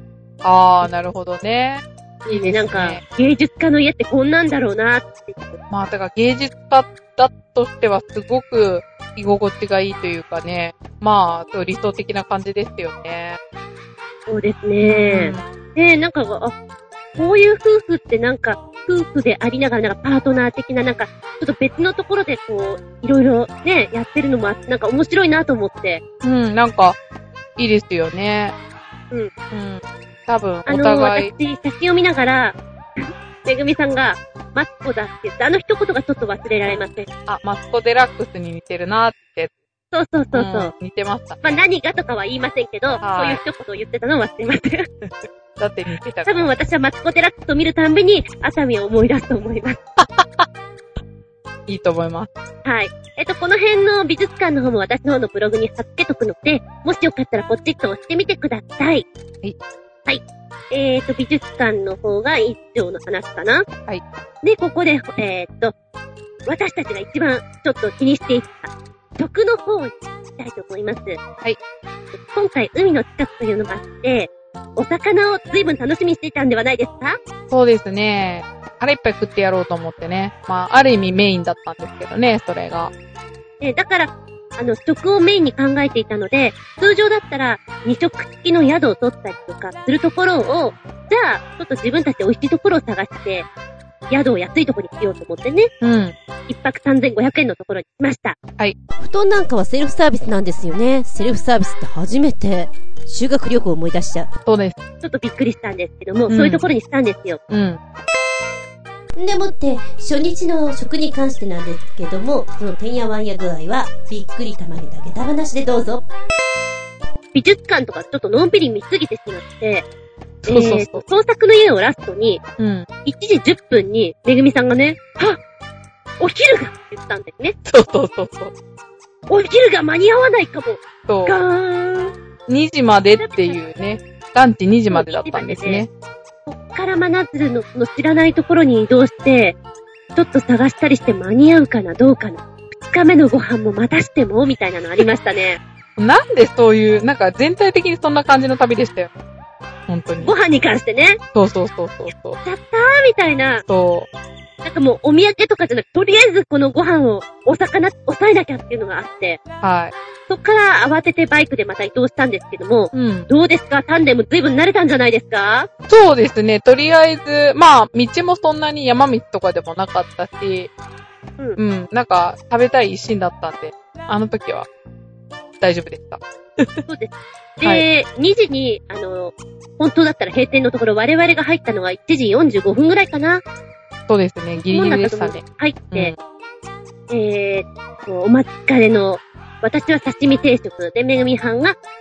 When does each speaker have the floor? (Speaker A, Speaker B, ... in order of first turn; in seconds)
Speaker A: 0.4-3.0, 5.7-13.4, 14.8-15.4, 26.2-27.0, 27.6-28.5, 29.5-31.3, 36.6-39.5, 40.3-41.6, 43.0-43.4, 45.0-46.5, 50.0-50.5, 51.7-52.3, 77.5-82.9, 95.8-96.1, 104.5-104.8, 106.3-106.7, 107.5-107.8, 120.4-121.0, 122.6-122.9, 127.7-128.5, 131.1-131.4, 132.5-135.9, 146.0-149.1, 149.9-150.3, 151.3-152.4, 153.7-154.1, 159.6-159.9, 162.9-163.3, 165.9-170.7, 171.6-174.7, 175.6-176.8, 184.1-186.2
Speaker B: 2.3-5.6, 14.3-16.5, 17.2-26.0, 30.7-37.1, 39.9-40.7, 41.4-44.9, 46.1-49.8, 52.6-59.1, 60.1-63.7, 64.4-65.8, 66.5-71.2, 72.2-77.2, 83.6-93.5, 94.1-95.7, 96.5-98.4, 105.0-107.4, 117.3-119.9, 120.5-122.4, 123.0-125.4, 126.2-127.6, 129.3-132.1, 133.2-133.6, 134.9-135.8, 136.5-139.6, 140.1-145.6, 150.2-151.2, 152.4-153.7, 154.6-159.4, 160.3-165.7, 176.9-183.4, 184.6-186.1, 187.1-191.8
Speaker C: 99.0-104.3, 109.2-116.0